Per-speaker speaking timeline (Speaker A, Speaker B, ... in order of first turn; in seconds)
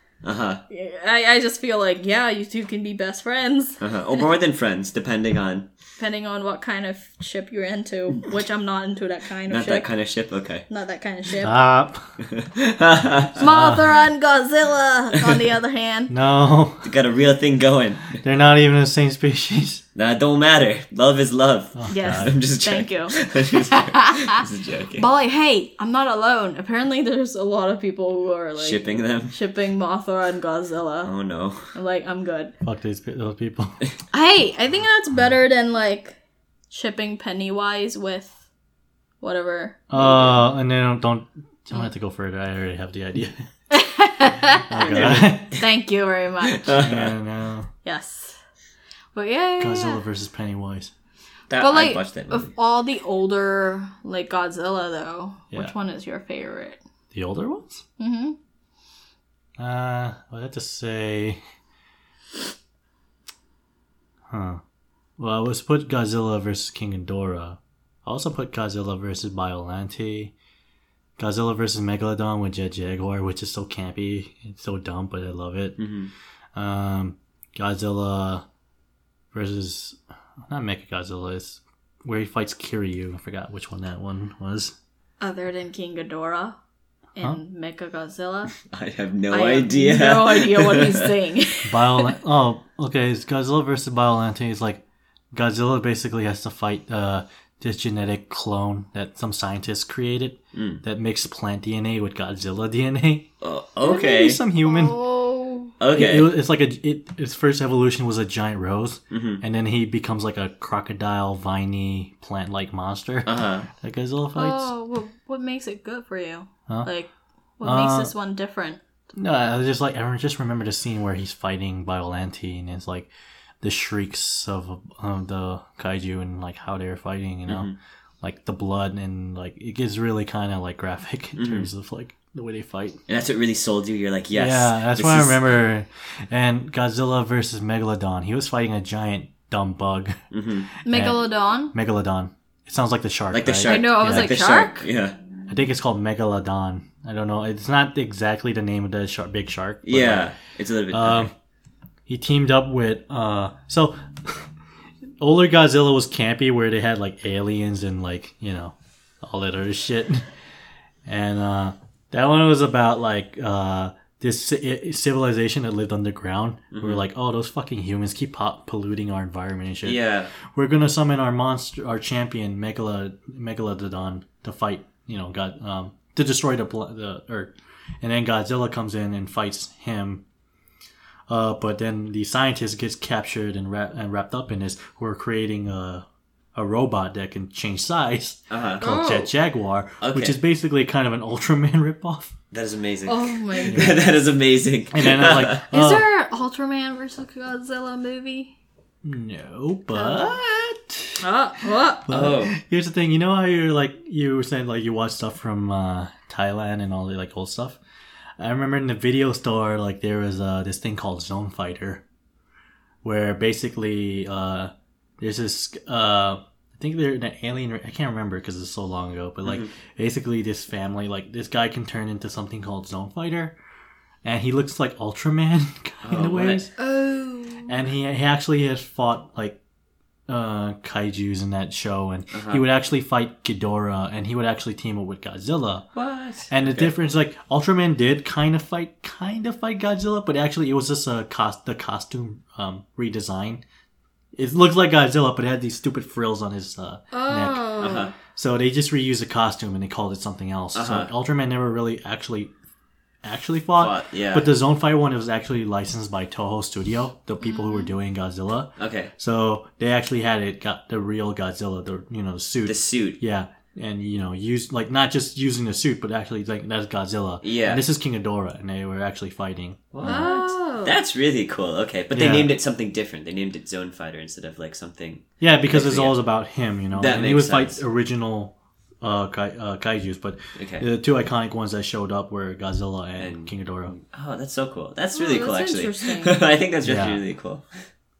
Speaker A: 0.2-0.6, 3.8-5.7, 9.5-10.6, 12.2-13.4, 16.8-18.2, 19.9-25.1, 28.6-29.4, 31.0-31.7, 44.9-45.2, 46.5-47.1, 51.5-52.5, 75.8-76.1, 88.6-91.1, 100.5-100.8, 103.4-104.4, 105.8-106.3, 109.1-109.4, 113.2-113.7, 127.5-127.8, 131.4-131.7, 133.1-135.4, 140.3-140.7, 143.3-145.2, 149.8-151.3, 166.7-167.0, 169.8-170.3, 188.5-188.8, 190.0-190.4, 192.5-195.6, 202.1-202.5, 219.4-219.7, 226.0-226.6, 232.3-232.6, 235.9-236.9, 247.8-248.1, 250.7-251.1, 253.8-254.5, 258.8-259.1, 262.6-263.2, 267.4-267.8, 269.9-276.2, 276.9-277.8, 280.6-280.9, 283.2-287.8
Speaker B: 0.7-4.2, 6.0-9.9, 10.7-11.6, 13.4-16.1, 21.9-31.1, 31.7-32.5, 34.1-36.2, 36.7-38.4, 39.2-40.4, 43.7-46.8, 47.8-48.4, 49.1-50.0, 51.6-56.8, 58.0-58.4, 85.2-86.6, 87.2-88.5, 89.3-92.2, 104.6-105.8, 114.3-118.8, 140.8-141.7, 143.6-144.9, 188.8-189.3, 193.1-194.0, 195.7-198.5, 199.9-200.4, 201.2-202.1, 226.8-227.8, 247.1-248.1, 257.4-257.9, 270.0-270.9, 285.1-286.4
Speaker C: 11.4-12.2, 13.4-14.0, 16.1-16.9, 18.2-19.8, 21.7-22.4, 32.6-33.8, 39.9-43.4, 44.7-45.5, 46.7-47.7, 49.6-50.9, 57.1-57.8, 59.6-61.4, 64.3-64.6, 65.2-70.3, 71.2-75.8, 76.5-78.4, 79.3-84.7, 91.7-94.8, 95.3-103.3, 103.8-105.0, 105.9-114.7, 117.6-118.1, 119.1-123.1, 123.6-127.7, 128.2-133.0, 134.3-140.2, 140.9-141.2, 141.7-144.4, 145.5-150.3, 150.9-151.3, 152.1-154.4, 155.2-160.3, 161.0-180.2, 181.3-192.3, 193.7-194.0, 194.9-196.0, 199.0-201.2, 202.1-207.8, 208.4-212.0, 213.0-223.5, 224.2-226.7, 227.7-229.6, 230.3-235.9, 236.5-243.6, 244.3-247.7, 248.2-252.5, 253.2-270.3, 272.1-272.5, 275.4-283.9, 286.8-287.2